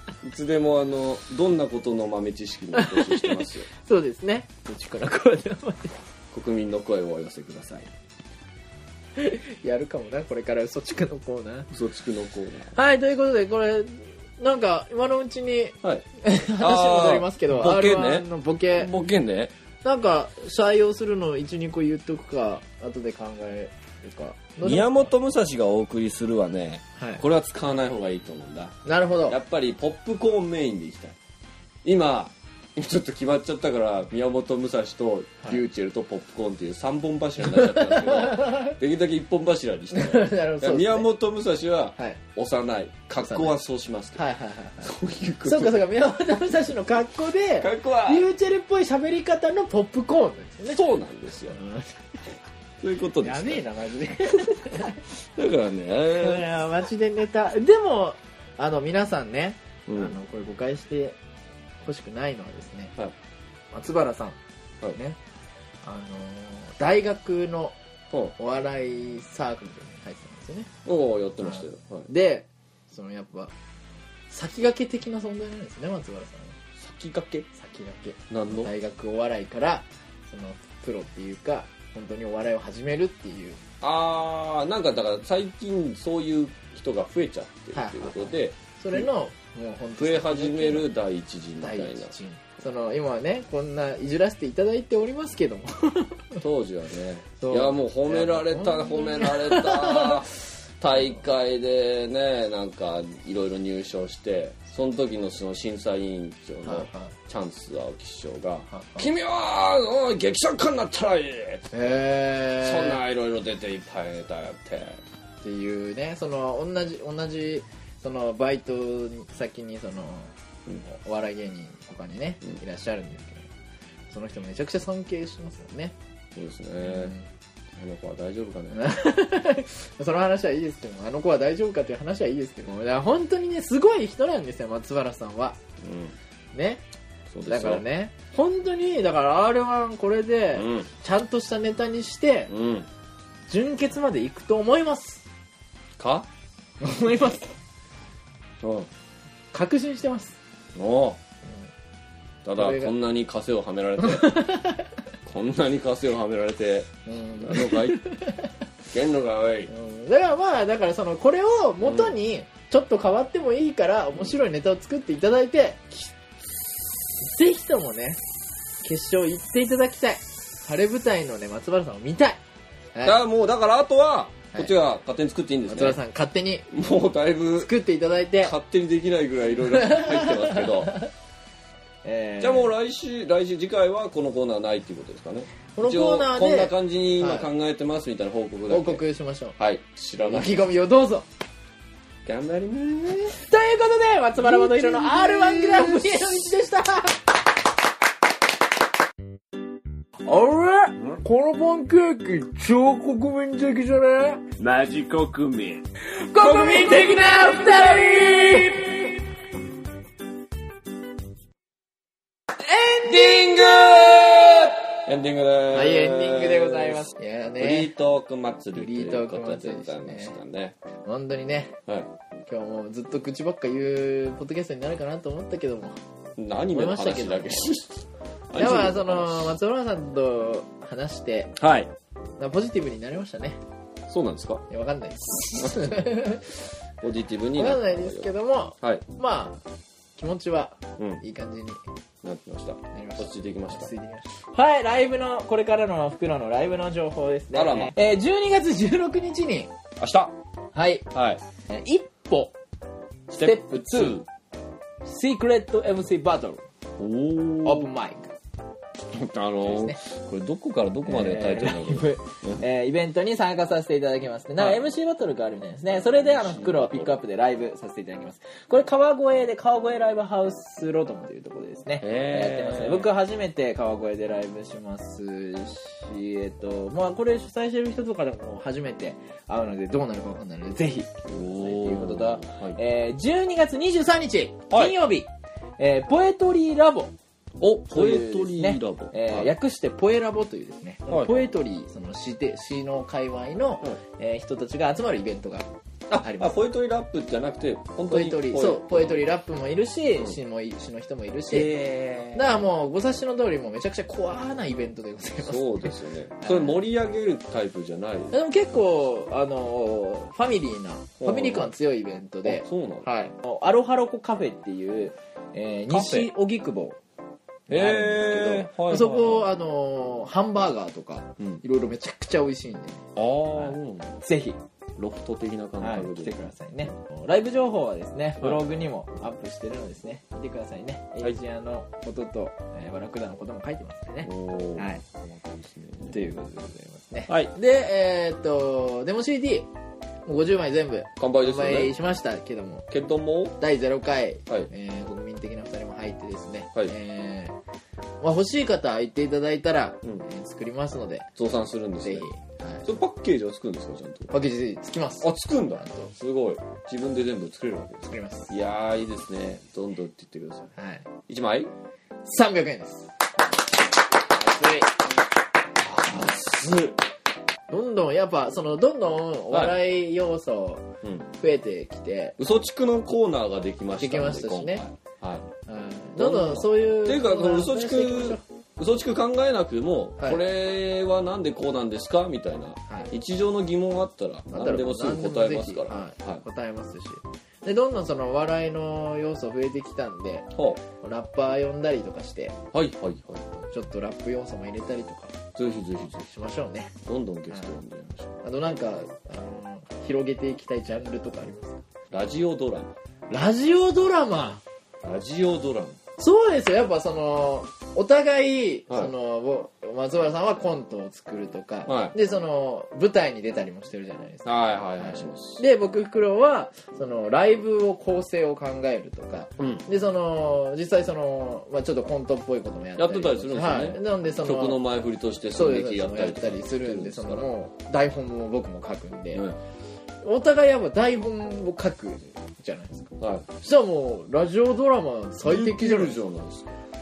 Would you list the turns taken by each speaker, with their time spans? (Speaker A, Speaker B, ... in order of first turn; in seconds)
Speaker A: 0.2-3.7, 6.3-7.9, 11.7-12.7, 16.6-19.5, 24.6-31.2, 31.8-44.2, 44.8-45.8, 47.6-48.3, 50.7-51.6, 52.8-53.6, 55.2-56.5, 59.9-60.1, 70.8-72.1, 76.8-77.5, 78.3-78.7, 83.8-89.1, 90.0-92.1, 96.4-111.7, 112.6-115.0, 126.3-127.1, 127.8-128.8, 135.8-136.1, 137.3-137.8, 140.5-140.9, 142.5-142.9, 146.0-146.3, 148.6-148.9, 150.7-151.2, 152.4-154.4, 155.2-158.0, 158.9-159.7, 161.8-162.2, 173.0-176.0, 176.7-177.7, 178.4-181.0, 182.4-189.0, 189.6-190.7, 192.2-193.4, 194.4-196.4, 204.6-205.8, 206.4-207.5, 213.0-220.8, 226.4-229.6, 231.6-231.9, 234.1-234.6, 235.6-236.1, 237.0-238.3, 242.2-243.9, 247.5-247.9, 250.0-250.3, 251.1-251.4, 253.3-254.2, 257.0-257.9, 259.0-262.6, 266.2-267.1, 272.0-273.1, 281.3-282.8, 284.7-285.0, 287.6-289.5, 291.1-291.5, 296.1-299.3, 301.5-302.6, 305.4-308.3, 311.2-311.7, 312.4-313.1, 315.9-316.3, 317.7-319.5, 323.1-324.2, 325.0-326.4, 334.2-336.1, 337.3-337.5, 341.2-341.9, 342.9-343.6, 351.4-352.3, 352.8-354.3, 355.2-360.7, 361.3-361.7, 364.2-364.9, 365.8-367.0, 369.5-369.8, 372.4-375.5, 376.1-386.4, 390.5-390.8, 392.7-393.7, 395.5-396.3, 397.0-398.4, 402.1-402.9, 405.0-406.0, 411.9-412.1, 414.4-415.6, 423.0-427.5, 429.3-429.6, 433.2-433.5, 435.4-436.8
Speaker B: 2.7-6.0, 9.2-11.7, 12.7-18.9, 19.8-25.1, 28.8-29.4, 37.5-38.7, 39.9-41.1, 43.2-43.5, 44.1-44.9, 45.4-50.8, 51.5-52.0, 53.2-55.0, 56.2-61.2, 61.8-62.9, 63.7-64.4, 65.8-67.7, 68.3-70.7, 71.4-73.5, 74.3-76.5, 77.5-83.6, 87.7-90.9, 91.6-96.4, 97.4-100.2, 106.6-107.1, 108.7-109.0, 111.7-113.0, 115.4-123.5, 124.1-125.9, 126.8-127.3, 128.7-135.6, 136.5-136.8, 137.5-142.5, 143.5-145.2, 146.8-147.5, 149.5-150.3, 152.6-152.9, 154.0-154.9, 157.1-158.5, 159.7-166.1, 167.2-168.2, 168.8-172.4, 175.7-176.7, 177.6-178.5, 179.8-181.0, 182.0-182.7, 185.8-187.5, 188.7-189.6, 190.2-191.2, 193.3-197.2, 200.2-204.4, 206.1-209.1, 212.7-213.4, 215.7-217.9, 218.7-220.3, 221.0-221.8, 222.4-226.0, 226.7-227.7, 228.6-231.5, 232.4-233.6, 234.7-236.6, 237.5-239.6, 240.2-241.8, 242.9-249.7, 250.7-251.1, 251.7-252.5, 253.3-254.2, 255.0-256.6, 257.6-258.3, 259.6-260.0, 261.0-287.1, 287.9-295.7, 296.2-296.6, 298.1-301.7, 302.3-306.8, 308.3-317.0, 317.7-324.6, 325.8-335.0, 336.1-339.7, 340.2-342.9, 343.6-347.6, 348.2-351.3, 352.0-352.9, 354.3-356.1, 358.1-358.5, 360.8-361.1, 362.2-363.1, 367.7-372.4, 374.0-374.8, 375.7-378.4, 382.9-383.1, 384.5-390.5, 391.0-392.6, 393.7-395.4, 396.3-396.9, 398.4-401.8, 403.3-404.6, 406.2-424.8, 425.5-429.4, 430.2-436.2